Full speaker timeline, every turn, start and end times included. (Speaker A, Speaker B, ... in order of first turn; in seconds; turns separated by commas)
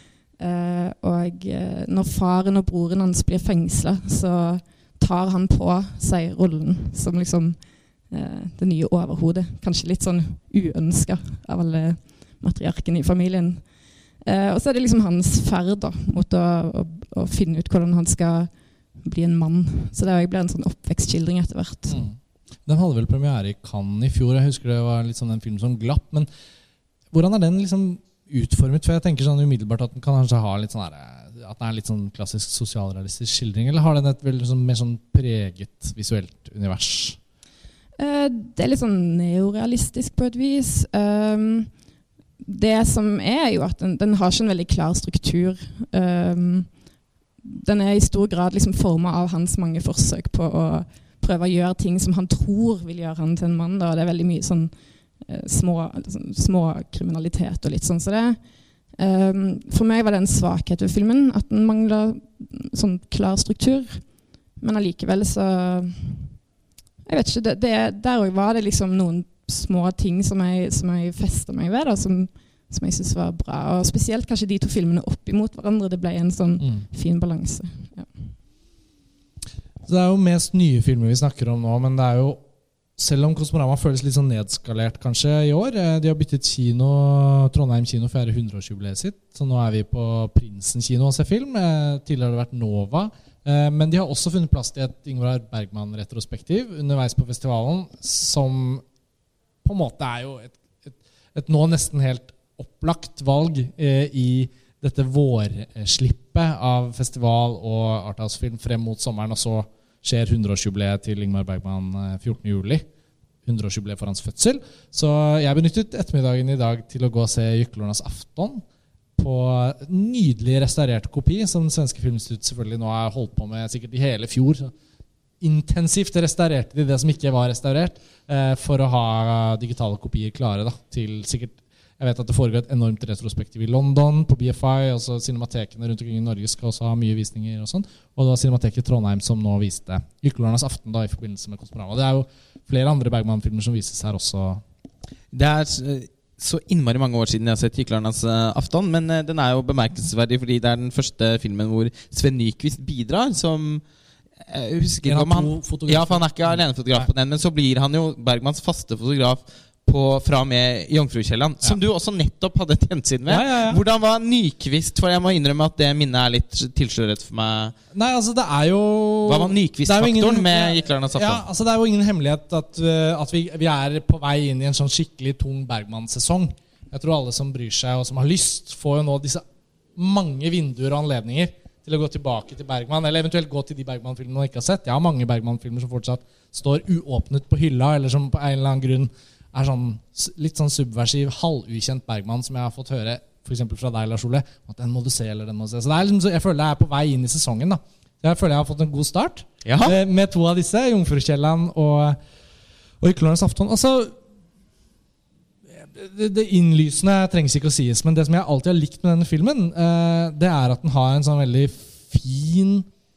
Speaker A: 0.4-22.1, Speaker B: 21.9-26.3, Speaker B: 27.1-37.2, Speaker A: 38.0-41.7, Speaker A: 42.4-46.7, Speaker A: 47.5-54.7, Speaker A: 55.2-58.4, Speaker A: 59.0-66.4, Speaker A: 67.1-78.2, Speaker B: 76.6-76.9, Speaker B: 79.9-82.4, Speaker B: 83.0-98.8, Speaker B: 99.6-112.9, Speaker B: 113.5-118.6, Speaker B: 119.2-124.7, Speaker B: 125.4-144.6, Speaker C: 145.3-153.8, Speaker C: 154.5-167.8, Speaker B: 155.1-157.1, Speaker B: 163.3-163.8, Speaker B: 167.9-179.4, Speaker C: 169.3-171.4, Speaker B: 180.0-202.2, Speaker C: 199.7-200.0, Speaker B: 203.0-204.2, Speaker B: 205.8-212.9